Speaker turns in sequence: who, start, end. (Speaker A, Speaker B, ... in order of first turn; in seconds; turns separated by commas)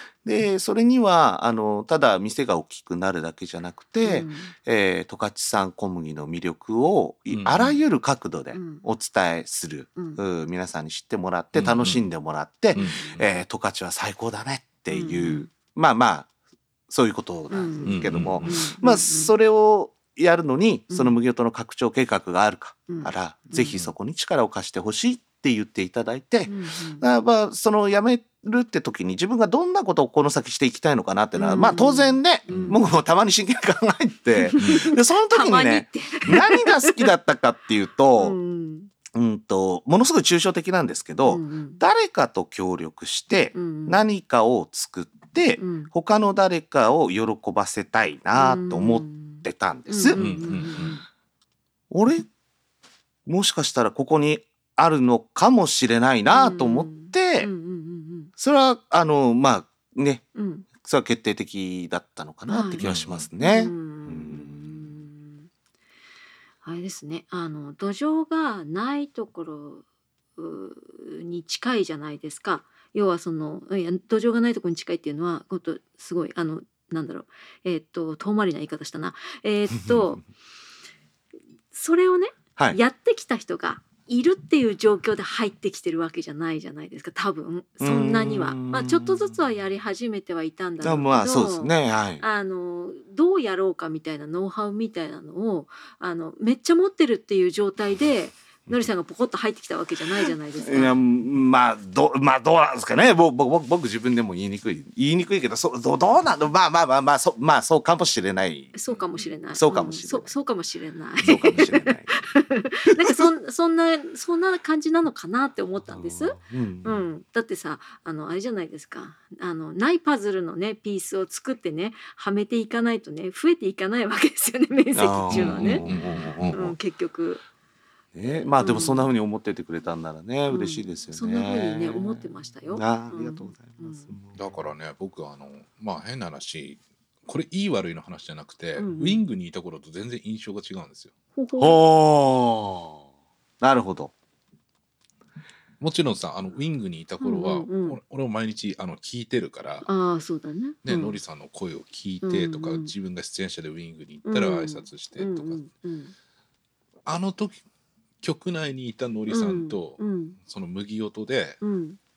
Speaker A: 0.2-16.3, Speaker B: 4.0-4.5, Speaker C: 7.3-7.8, Speaker B: 8.5-8.8, Speaker C: 11.5-12.0, Speaker B: 12.7-13.1, Speaker C: 12.7-13.2, Speaker B: 14.9-15.5, Speaker A: 16.9-38.4, Speaker B: 17.5-19.3, Speaker C: 17.9-18.6, Speaker B: 20.9-21.1, Speaker B: 22.9-23.8, Speaker B: 26.4-27.0, Speaker B: 31.4-32.8, Speaker C: 32.5-32.8, Speaker B: 34.4-37.0, Speaker C: 34.6-34.9, Speaker B: 38.2-38.9, Speaker A: 39.1-50.7, Speaker B: 41.3-41.8, Speaker B: 43.5-44.0, Speaker B: 45.6-45.9, Speaker B: 48.4-51.0, Speaker C: 50.1-51.0, Speaker A: 51.9-52.2, Speaker A: 53.2-57.5, Speaker B: 56.3-58.3, Speaker A: 58.4-64.8, Speaker B: 60.4-60.6, Speaker B: 62.5-62.8, Speaker C: 62.8-63.3, Speaker B: 63.4-65.5, Speaker B: 66.6-69.8, Speaker B: 70.4-80.2, Speaker A: 79.7-80.1, Speaker B: 81.7-101.0, Speaker A: 87.8-89.2, Speaker A: 90.8-92.2, Speaker A: 100.2-108.8, Speaker B: 108.7-125.9, Speaker A: 109.5-110.3, Speaker A: 111.2-112.3, Speaker A: 113.0-113.3, Speaker A: 115.9-117.0, Speaker A: 124.9-126.7, Speaker C: 125.3-126.7, Speaker B: 126.5-127.4, Speaker A: 128.1-134.6, Speaker B: 128.3-129.1, Speaker B: 130.5-134.1, Speaker C: 134.3-141.1, Speaker B: 138.8-139.2, Speaker B: 141.3-141.8, Speaker A: 141.6-143.0, Speaker A: 143.6-144.1, Speaker C: 145.8-149.9, Speaker B: 147.2-148.0, Speaker B: 149.8-151.2, Speaker C: 150.8-155.6, Speaker B: 152.2-152.9, Speaker B: 154.2-156.1, Speaker C: 157.1-157.6, Speaker C: 158.2-161.6, Speaker B: 159.3-160.4, Speaker B: 161.6-162.0